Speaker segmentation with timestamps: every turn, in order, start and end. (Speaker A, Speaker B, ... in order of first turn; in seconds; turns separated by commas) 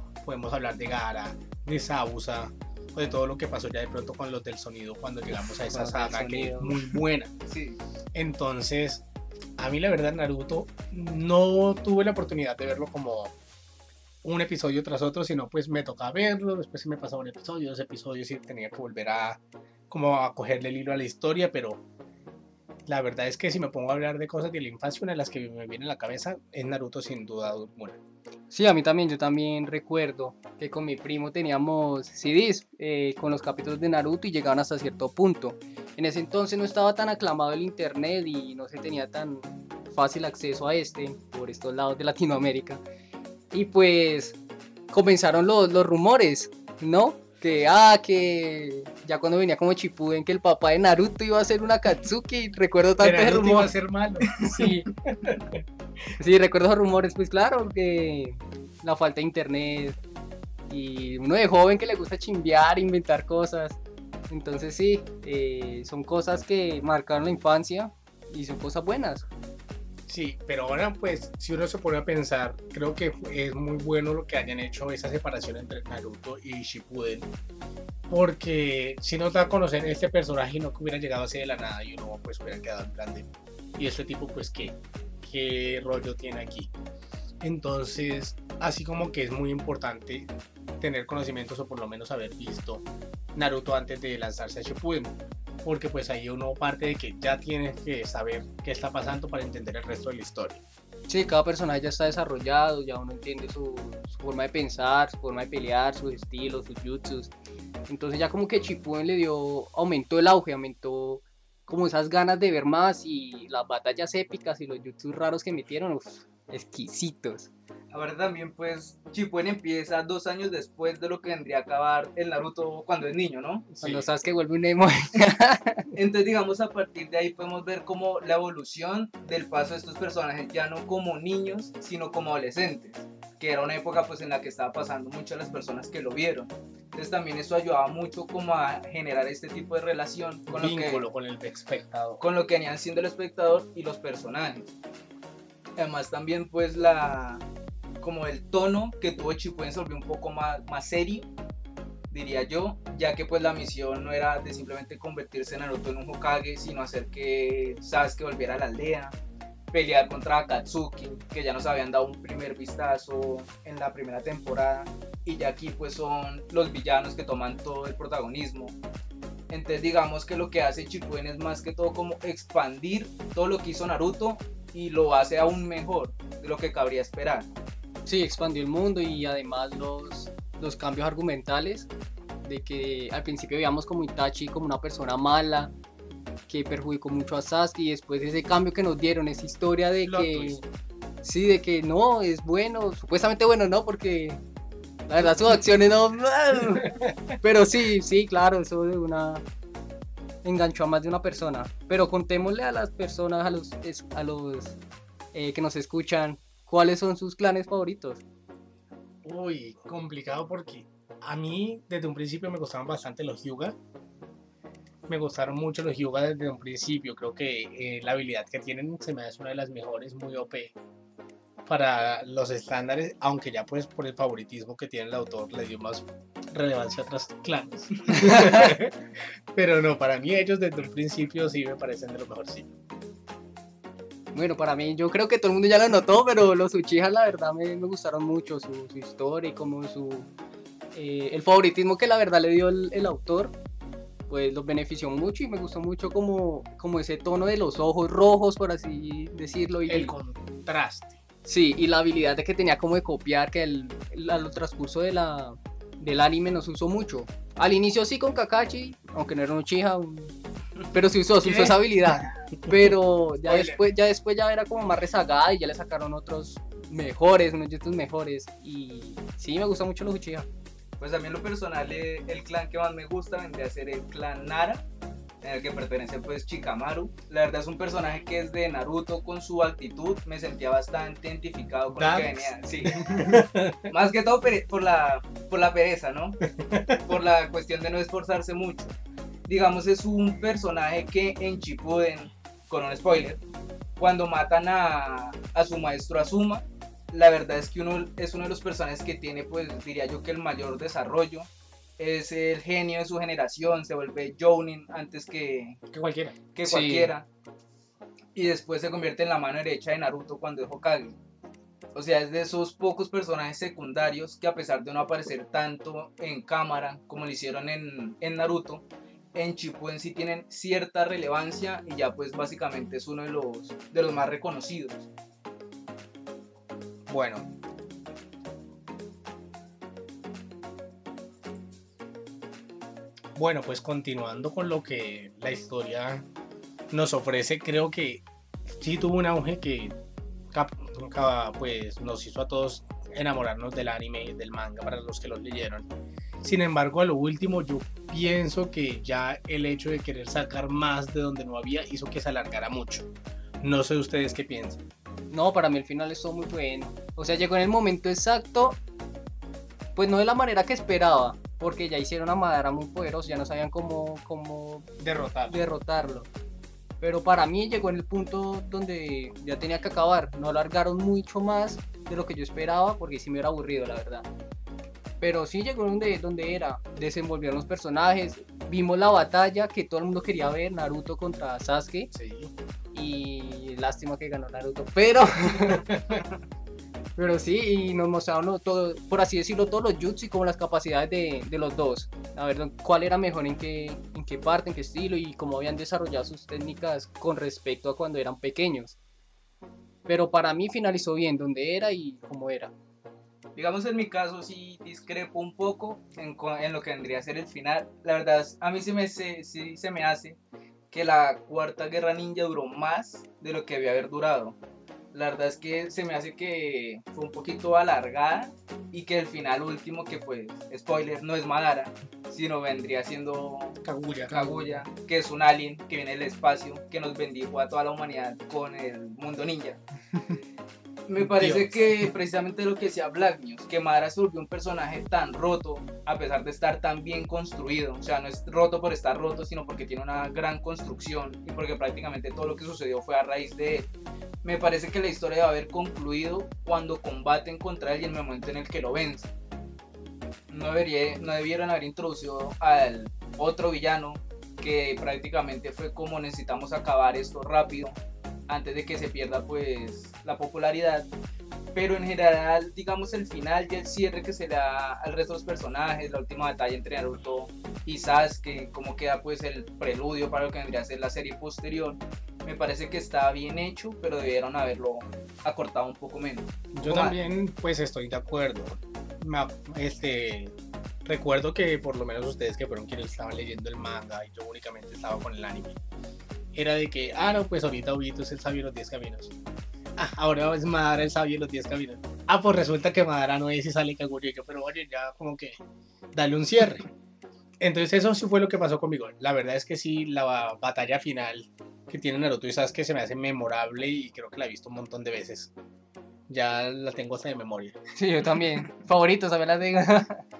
Speaker A: 0.2-7.3, Speaker B: 5.5-7.0, Speaker C: 7.5-7.8, Speaker A: 8.1-9.0, Speaker A: 9.6-13.3, Speaker A: 14.2-21.8, Speaker A: 22.9-28.0, Speaker B: 28.5-42.8, Speaker B: 43.5-44.4, Speaker B: 44.9-53.7, Speaker A: 53.0-55.6, Speaker B: 54.4-54.9, Speaker B: 56.2-60.0, Speaker B: 60.7-69.3, Speaker A: 70.1-77.3, Speaker A: 78.1-86.7, Speaker A: 87.4-90.3, Speaker A: 90.8-100.6, Speaker B: 101.1-107.3, Speaker B: 107.9-117.5, Speaker C: 117.9-123.7, Speaker A: 123.7-124.1, Speaker B: 123.8-125.9, Speaker C: 125.9-141.0, Speaker A: 140.5-142.2, Speaker C: 142.2-144.8, Speaker C: 145.8-147.4, Speaker C: 148.0-151.3, Speaker C: 152.1-159.1, Speaker C: 159.7-168.8, Speaker C: 169.5-177.5, Speaker B: 178.1-181.9, Speaker B: 182.4-185.7, Speaker B: 186.5-190.6, Speaker A: 190.0-190.6, Speaker B: 191.2-194.4, Speaker B: 195.1-199.4, Speaker A: 196.8-197.1, Speaker B: 200.4-204.8, Speaker B: 205.3-208.2, Speaker A: 209.2-213.8, Speaker A: 215.1-220.7, Speaker A: 221.6-232.7, Speaker B: 228.1-228.8, Speaker B: 234.3-240.3, Speaker B: 240.9-243.5, Speaker B: 244.3-250.1, Speaker A: 249.9-251.2, Speaker B: 251.4-260.3, Speaker B: 260.9-270.5, Speaker A: 261.4-262.9, Speaker A: 263.4-263.8, Speaker C: 271.0-274.8, Speaker C: 275.4-283.4, Speaker A: 281.9-283.9, Speaker C: 283.9-286.4, Speaker A: 286.5-287.0, Speaker C: 287.0-288.9, Speaker C: 289.5-293.4, Speaker C: 294.0-305.8, Speaker A: 305.9-306.4, Speaker C: 306.5-307.3, Speaker B: 306.6-307.1, Speaker C: 308.3-311.2, Speaker C: 311.9-325.1, Speaker A: 327.1-327.5, Speaker A: 333.3-336.2, Speaker A: 336.9-339.9, Speaker A: 340.5-345.9, Speaker A: 346.4-353.1, Speaker A: 353.6-354.8, Speaker B: 355.3-358.8, Speaker B: 359.9-364.9, Speaker A: 365.0-365.6, Speaker B: 365.5-366.3, Speaker B: 367.0-374.3, Speaker B: 375.2-382.1, Speaker A: 382.1-382.5, Speaker B: 382.9-385.9, Speaker A: 385.7-386.2, Speaker B: 387.2-399.0, Speaker B: 400.1-402.7, Speaker C: 403.6-410.4, Speaker C: 410.9-414.6, Speaker C: 415.1-429.8, Speaker A: 423.8-424.8, Speaker C: 431.1-443.9, Speaker A: 431.2-431.9, Speaker C: 444.4-449.3, Speaker C: 450.5-457.9, Speaker C: 458.5-461.1, Speaker C: 461.7-477.1, Speaker A: 476.7-480.5, Speaker A: 481.0-485.8, Speaker A: 486.5-489.3, Speaker A: 490.0-495.5, Speaker A: 496.1-496.9, Speaker A: 497.6-505.5, Speaker A: 506.3-507.8, Speaker B: 507.9-510.2